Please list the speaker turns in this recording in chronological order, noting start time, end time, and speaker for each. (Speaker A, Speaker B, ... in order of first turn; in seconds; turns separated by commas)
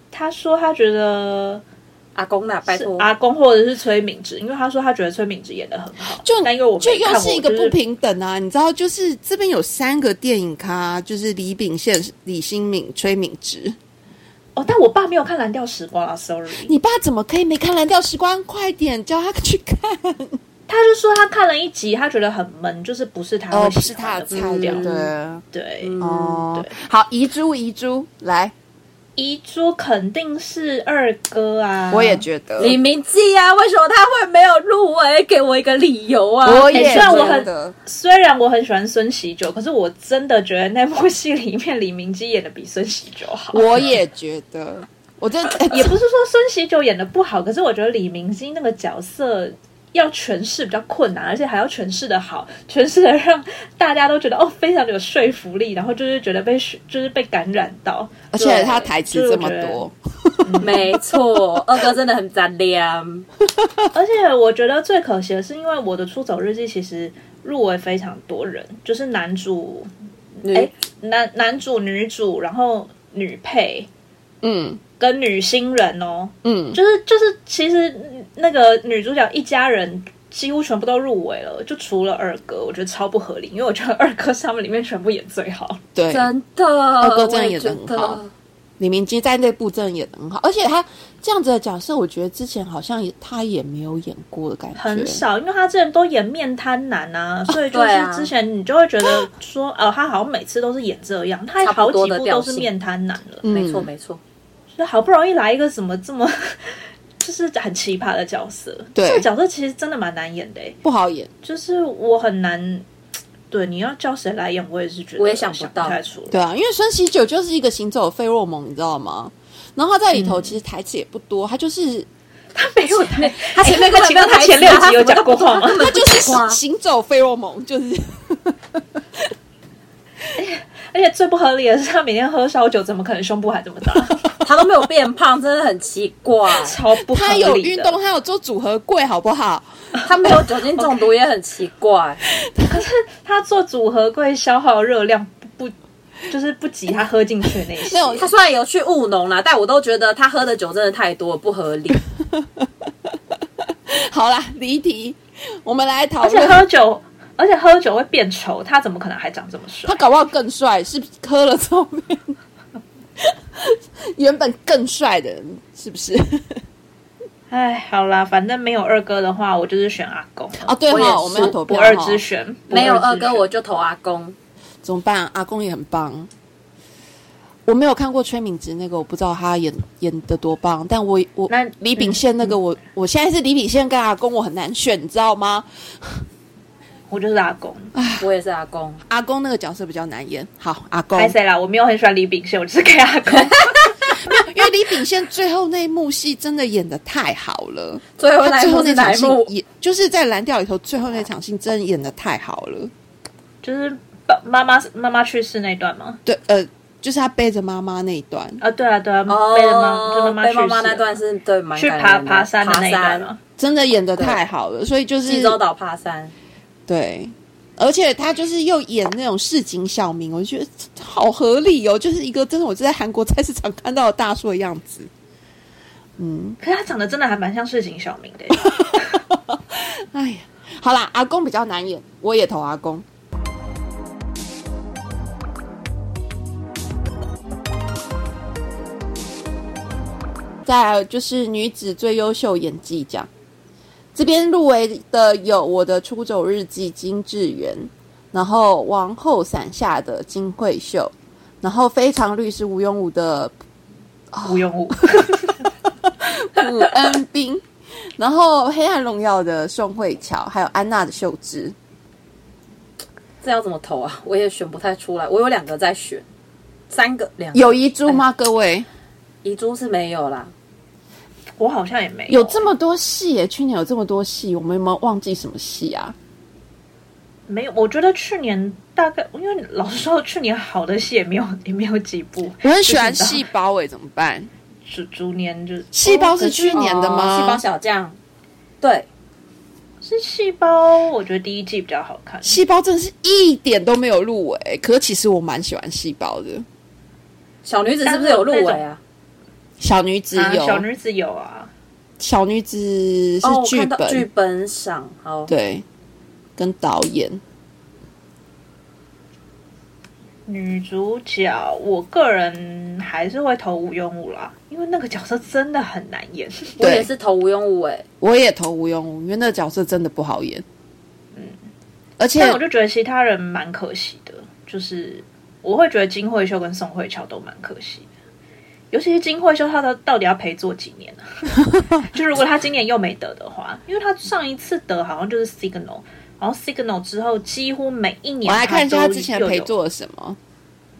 Speaker A: 0.1-1.6, Speaker B: 2.1-3.1, Speaker A: 2.7-7.8, Speaker C: 6.2-13.8, Speaker A: 14.6-16.7, Speaker C: 16.6-20.4, Speaker A: 20.7-24.9, Speaker C: 23.5-25.4, Speaker B: 24.3-25.1, Speaker A: 25.5-26.0, Speaker B: 25.8-26.4, Speaker C: 26.0-28.5, Speaker A: 29.2-32.2, Speaker C: 31.9-32.8, Speaker B: 32.6-37.5, Speaker C: 36.4-37.7, Speaker A: 36.7-43.9, Speaker C: 43.5-46.0, Speaker A: 45.7-59.8, Speaker C: 58.3-60.8, Speaker B: 58.4-58.8, Speaker A: 60.4-60.9, Speaker B: 60.6-63.3, Speaker C: 63.6-63.9, Speaker A: 63.9-73.9, Speaker B: 70.4-70.7, Speaker C: 74.4-74.8, Speaker A: 75.0-85.8, Speaker C: 76.4-76.8, Speaker C: 85.9-86.3, Speaker B: 86.1-88.3, Speaker C: 87.0-88.2, Speaker C: 88.8-95.2, Speaker A: 94.8-103.4, Speaker B: 97.7-98.3, Speaker B: 101.6-102.7, Speaker C: 103.4-103.9, Speaker B: 103.5-104.2, Speaker A: 104.7-110.8, Speaker C: 108.9-109.3, Speaker C: 110.8-111.3, Speaker A: 111.4-112.8, Speaker A: 113.5-116.4, Speaker B: 115.2-116.0, Speaker C: 116.3-122.1, Speaker A: 122.5-125.9, Speaker B: 122.9-126.6, Speaker C: 125.7-128.8, Speaker A: 130.4-134.2, Speaker B: 134.4-136.8, Speaker A: 136.5-138.0, Speaker C: 137.0-139.9, Speaker B: 140.0-142.2, Speaker C: 142.4-142.8, Speaker A: 142.7-145.7, Speaker A: 146.3-148.3, Speaker C: 147.8-148.2, Speaker B: 148.1-152.0, Speaker C: 152.4-152.7, Speaker C: 153.9-156.6, Speaker A: 156.2-160.0, Speaker C: 159.8-162.3, Speaker C: 163.2-166.6, Speaker A: 167.5-173.4, Speaker C: 170.6-172.2, Speaker B: 170.9-171.6, Speaker B: 172.7-174.3, Speaker C: 174.8-176.3, Speaker C: 177.7-186.2, Speaker B: 181.5-182.1, Speaker A: 187.1-187.9, Speaker C: 187.9-188.3, Speaker B: 188.2-189.0, Speaker C: 189.1-191.3, Speaker A: 191.2-193.9, Speaker C: 194.2-202.9, Speaker B: 198.2-199.5, Speaker A: 203.6-206.2, Speaker C: 206.2-208.6, Speaker A: 208.6-211.1, Speaker B: 209.3-213.3, Speaker A: 211.8-213.4, Speaker C: 213.6-215.6, Speaker B: 214.2-214.4, Speaker B: 215.2-216.3, Speaker C: 216.9-225.1, Speaker C: 226.2-226.6, Speaker A: 226.6-229.2, Speaker C: 228.6-233.0, Speaker C: 240.6-243.3, Speaker C: 244.1-253.5, Speaker C: 254.3-255.4, Speaker A: 254.4-255.6, Speaker C: 256.2-257.6, Speaker C: 258.2-261.7, Speaker B: 263.4-266.2, Speaker B: 266.9-268.2, Speaker C: 267.5-268.9, Speaker B: 269.4-270.5, Speaker A: 271.6-272.6, Speaker C: 272.3-276.1, Speaker A: 277.5-283.5, Speaker C: 282.6-284.5, Speaker A: 284.9-286.2, Speaker C: 285.9-287.6, Speaker B: 286.1-288.1, Speaker B: 288.8-289.1, Speaker A: 290.0-292.6, Speaker C: 292.4-296.6, Speaker B: 297.6-299.0, Speaker A: 298.1-298.8, Speaker C: 299.8-300.8, Speaker A: 300.3-301.7, Speaker C: 302.2-304.3, Speaker B: 303.4-305.5, Speaker C: 305.5-305.8, Speaker C: 306.6-307.4, Speaker A: 310.4-316.8, Speaker B: 316.8-318.1, Speaker C: 316.8-317.1, Speaker C: 318.2-320.6, Speaker C: 322.2-322.6, Speaker A: 322.3-328.1, Speaker A: 328.9-339.7, Speaker C: 338.4-340.4